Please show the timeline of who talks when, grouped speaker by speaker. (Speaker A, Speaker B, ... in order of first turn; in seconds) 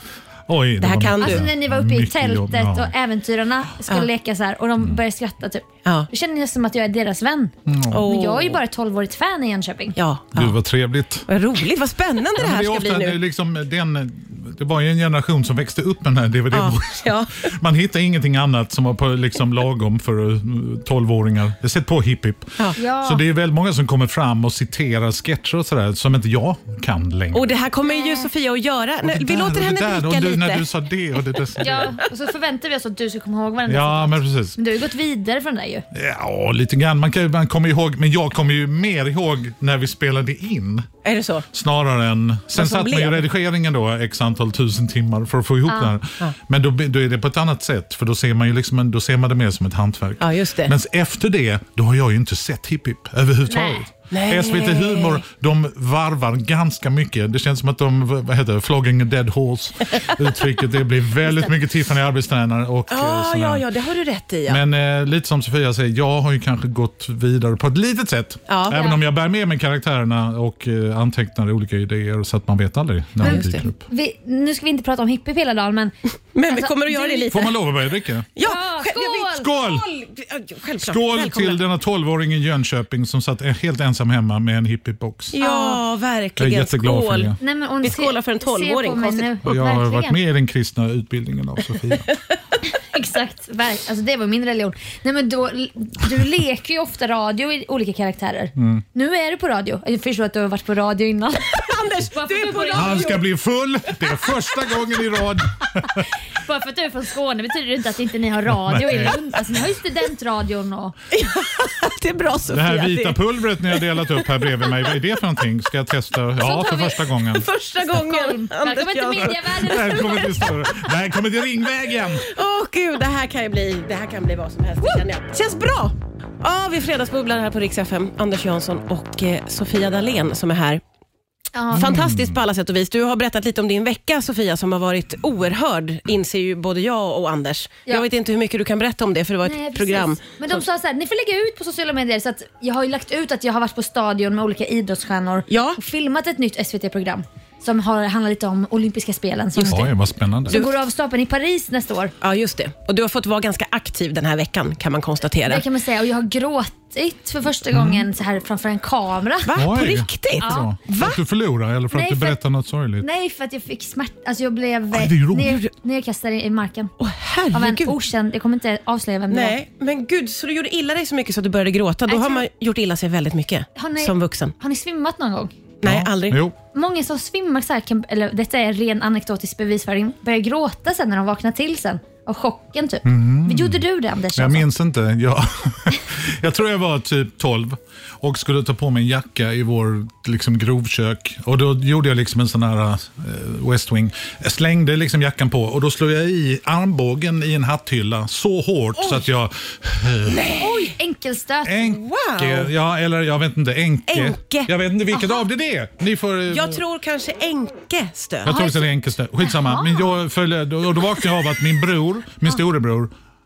Speaker A: 0.5-2.9, 7.7-8.1, 10.3-11.3, 12.3-27.5, 29.0-32.0, 33.7-34.6, 35.9-40.9, 41.5-63.7, 64.5-73.8, 77.3-78.3, 79.3-79.9, 80.8-85.4, 86.4-87.4, 89.4-92.0, 98.5-98.8, 102.7-106.1, 108.5-109.2, 112.5-117.5, 119.6-122.3, 131.7-132.4, 149.5-150.6, 157.7-158.1, 159.5-163.1, 164.9-165.6, 175.8-176.6, 183.0-200.6, 201.6-206.8, 208.4-213.1
Speaker B: 0.8-1.5, 7.9-8.6, 9.9-10.6, 11.3-13.2, 16.5-17.5, 27.3-30.7, 41.0-41.5, 42.5-43.2, 50.2-50.7, 54.1-55.2, 62.9-64.6, 68.5-68.8, 73.2-73.7, 76.3-77.5, 78.3-81.6, 85.3-89.4, 91.9-92.4, 101.4-103.2, 111.1-114.0, 117.3-120.2, 122.2-130.8, 131.7-140.6, 145.5-145.8, 150.5-150.8, 152.2-155.6, 159.4-161.2, 167.0-168.0, 169.3-174.5, 175.8-176.4, 198.9-199.2, 200.3-200.9, 201.8-202.7, 204.1-204.7, 206.5-208.7
Speaker C: 1.2-10.0, 22.8-23.2, 27.9-28.3, 31.6-35.9, 45.7-45.9, 53.5-53.8, 68.7-69.0, 73.2-75.9, 76.5-77.4, 78.4-79.5, 85.4-85.8, 87.4-90.2, 92.7-103.1, 106.3-111.0, 116.4-117.1, 117.9-120.6, 131.5-131.9, 139.4-149.9, 150.5-152.1, 155.4-160.7, 161.9-162.4, 163.0-166.9, 167.5-169.6, 172.1-172.5, 173.8-175.5, 176.7-184.7, 200.6-201.8, 205.1-205.4, 208.5-208.9, 209.4-210.1